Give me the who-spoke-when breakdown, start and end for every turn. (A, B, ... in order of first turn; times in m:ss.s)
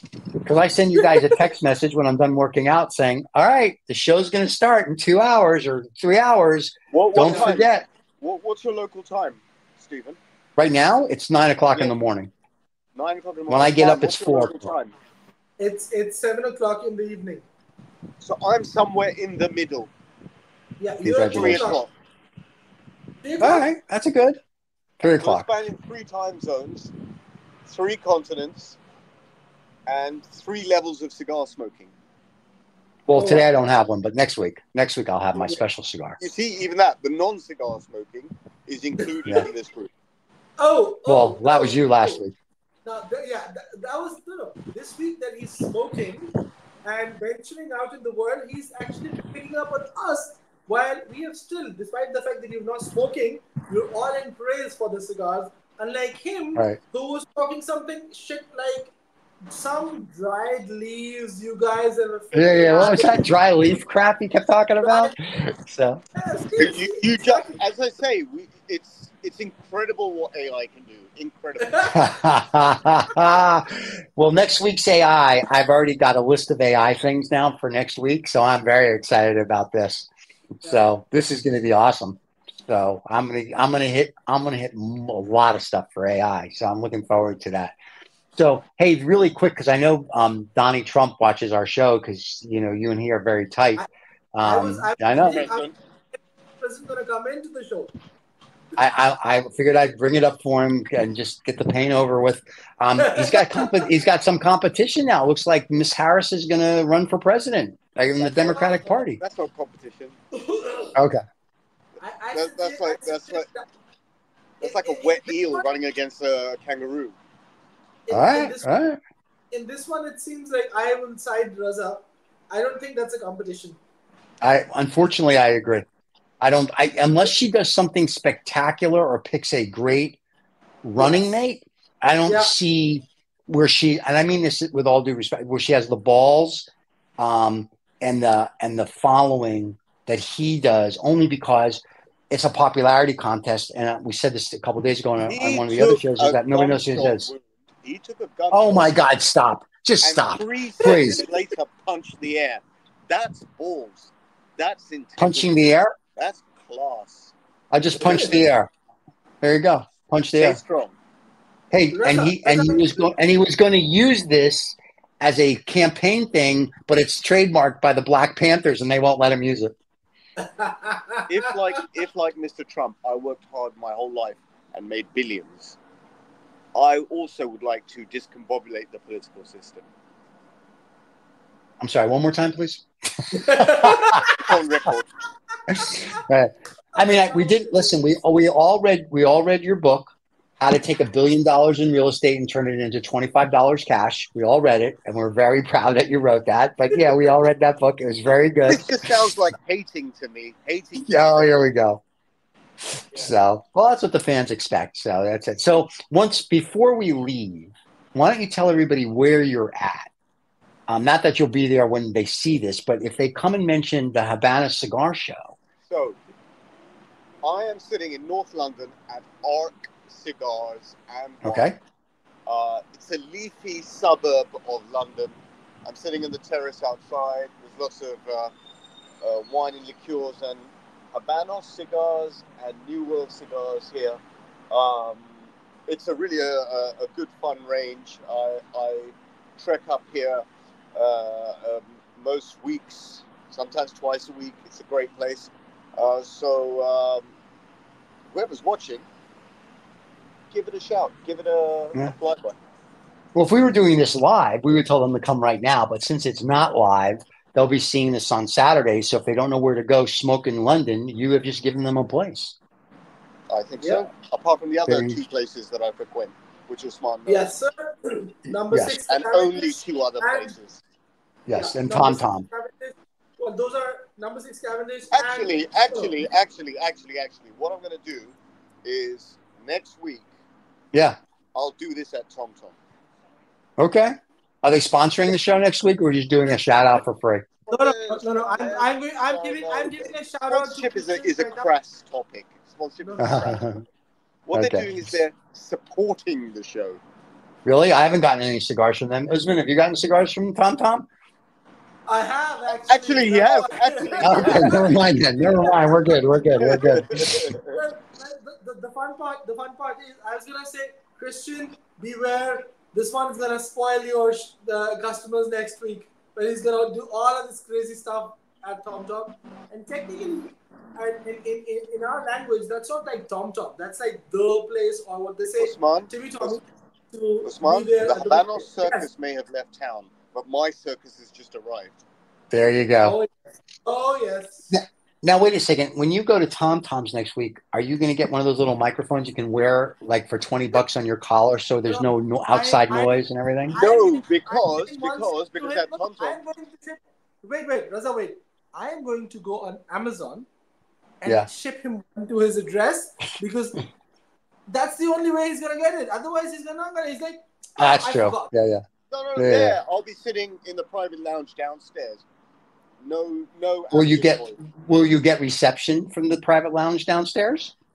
0:00.4-0:07.9 A
0:06.9-0:10.2 B
0:10.6-0:12.3 A
0:12.9-0:14.9 B
0:13.5-0:14.7 A
0:15.6-0:17.4 C
0:18.2-0:19.9 B
0:20.8-0:21.8 C
0:21.0-0:21.7 A
0:21.3-0:21.9 B
0:23.2-0:23.7 C
0:23.4-0:24.4 A
0:25.0-0:25.5 A
0:25.0-0:26.9 B
0:27.6-0:28.8 B
0:29.9-0:31.9 B
0:33.1-0:36.2 A
0:33.1-0:33.4 C
0:36.2-0:39.9 B
0:40.6-0:42.2 C
0:41.0-0:42.3 A
0:42.8-0:46.3 C
0:46.8-0:58.9 C
0:59.5-1:03.2 C
1:02.3-1:06.0 A
1:04.8-1:05.1 C
1:06.1-1:07.6 C
1:06.6-1:11.9 B
1:11.9-1:20.1 A
1:20.6-1:27.7 A
1:28.3-1:35.5 A
1:34.4-1:35.7 C
1:35.2-1:35.7 B
1:36.6-1:37.9 C
1:38.8-1:49.2 A
1:43.0-1:43.9 C
1:48.2-1:50.2 B
1:48.5-1:48.8 C
1:50.3-1:50.9 C
1:50.9-1:51.2 A
1:52.0-1:53.7 C
1:52.3-1:53.4 B
1:54.6-1:55.6 C
1:54.6-1:57.1 B
1:58.1-1:58.7 C
1:58.1-1:59.0 A
1:59.5-2:03.8 C
2:04.4-2:05.9 A
2:06.4-2:10.2 A
2:10.8-2:16.7 A
2:12.3-2:12.5 C
2:17.2-2:27.3 A
2:25.2-2:29.0 B
2:28.5-2:31.2 A
2:30.0-2:35.6 B
2:35.2-2:35.9 A
2:36.2-2:37.3 B
2:37.7-2:38.7 A
2:38.0-2:38.4 C
2:39.4-2:40.6 A
2:40.4-2:41.0 B
2:41.7-2:49.7 A
2:41.9-2:43.0 C
2:50.4-2:51.3 C
2:51.3-2:55.8 B
2:56.7-2:59.8 B
3:01.8-3:04.5 A
3:03.3-3:04.3 C
3:03.9-3:05.1 B
3:05.7-3:10.1 A
3:07.0-3:07.9 C
3:10.6-3:19.2 A
3:18.6-3:21.5 B
3:21.0-3:22.0 A
3:22.9-3:30.1 A
3:30.9-3:35.6 A
3:35.9-3:36.2 B
3:37.4-3:41.7 B
3:41.4-3:41.8 A
3:42.5-3:45.3 B
3:45.8-3:48.5 B
3:49.2-3:54.2 B
3:54.7-4:07.3 B
4:08.3-4:09.0 B
4:10.5-4:12.6 B
4:13.3-4:22.6 A
4:23.5-4:27.5 B
4:23.8-4:24.1 C
4:24.9-4:25.2 A
4:27.3-4:30.6 C
4:28.5-4:29.0 A
4:29.1-4:30.8 B
4:31.5-4:32.5 A
4:31.5-4:36.1 C
4:35.1-4:40.3 B
4:41.6-4:42.7 B
4:43.8-4:47.4 A
4:47.7-4:53.6 B
4:47.7-4:51.7 C
4:53.0-4:53.6 C
4:53.2-4:53.8 A
4:54.5-4:57.0 B
4:54.5-4:55.0 A
4:57.6-5:01.1 A
5:02.1-5:04.9 C
5:02.9-5:04.8 B
5:04.2-5:07.5 A
5:05.6-5:05.9 C
5:06.7-5:07.8 B
5:07.5-5:29.0 C
5:25.6-5:26.6 B
5:27.4-5:31.9 B
5:32.5-5:33.2 A
5:33.0-5:34.7 C
5:34.7-5:43.8 A
5:41.9-5:50.5 C
5:43.8-5:46.4 B
5:51.2-5:53.8 C
5:54.7-5:58.5 C
5:57.8-5:58.8 A
5:59.1-6:02.2 B
5:59.4-5:59.8 A
6:03.0-6:04.6 B
6:03.9-6:07.7 A